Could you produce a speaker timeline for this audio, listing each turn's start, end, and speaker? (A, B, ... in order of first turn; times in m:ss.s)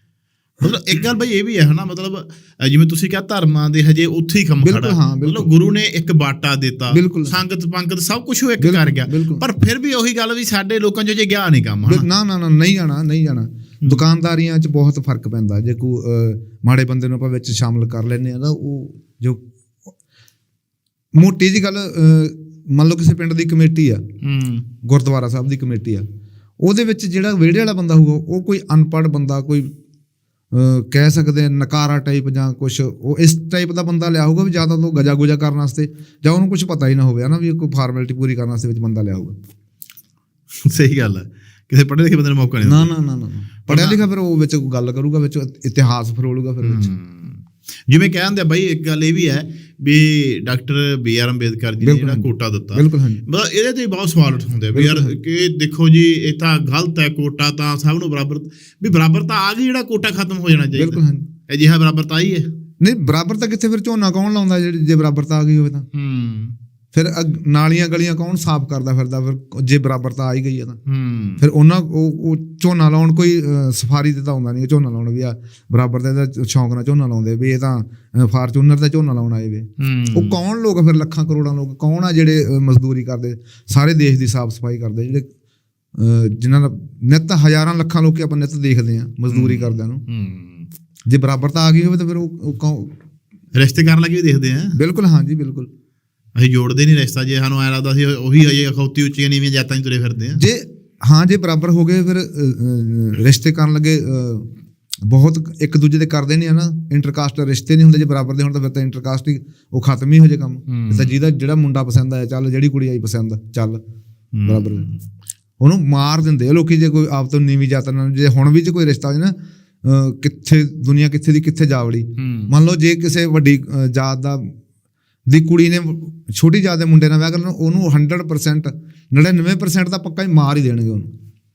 0:00.6-0:12.0 A
0:04.6-0:05.5 B
0:06.9-0:07.4 B
0:08.6-0:09.4 B
0:11.9-0:19.4 B
0:21.1-0:24.0 B
0:24.2-0:24.6 A
0:24.8-0:26.0 B
0:26.6-0:29.7 B
0:30.5-0:39.3 B
0:40.6-0:42.9 A
0:42.6-0:46.9 B
0:43.7-0:44.0 A
0:46.6-1:02.4 A
0:51.8-0:53.2 B
0:54.7-0:55.1 B
1:00.7-1:01.2 B
1:02.8-1:05.8 B
1:05.9-1:06.5 A
1:06.9-1:10.8 B
1:10.9-1:11.4 A
1:11.4-1:25.2 B
1:19.8-1:20.4 A
1:25.9-1:30.0 B
1:29.3-1:30.7 A
1:31.1-1:32.9 B
1:33.5-1:34.8 A
1:34.7-1:35.7 B
1:36.3-1:40.4 A
1:40.4-1:44.5 B
1:45.0-1:53.8 B
1:50.7-1:51.1 A
1:54.3-1:55.0 A
1:54.4-1:54.8 B
1:55.6-2:04.5 B
2:02.2-2:02.5 A
2:05.3-2:11.1 B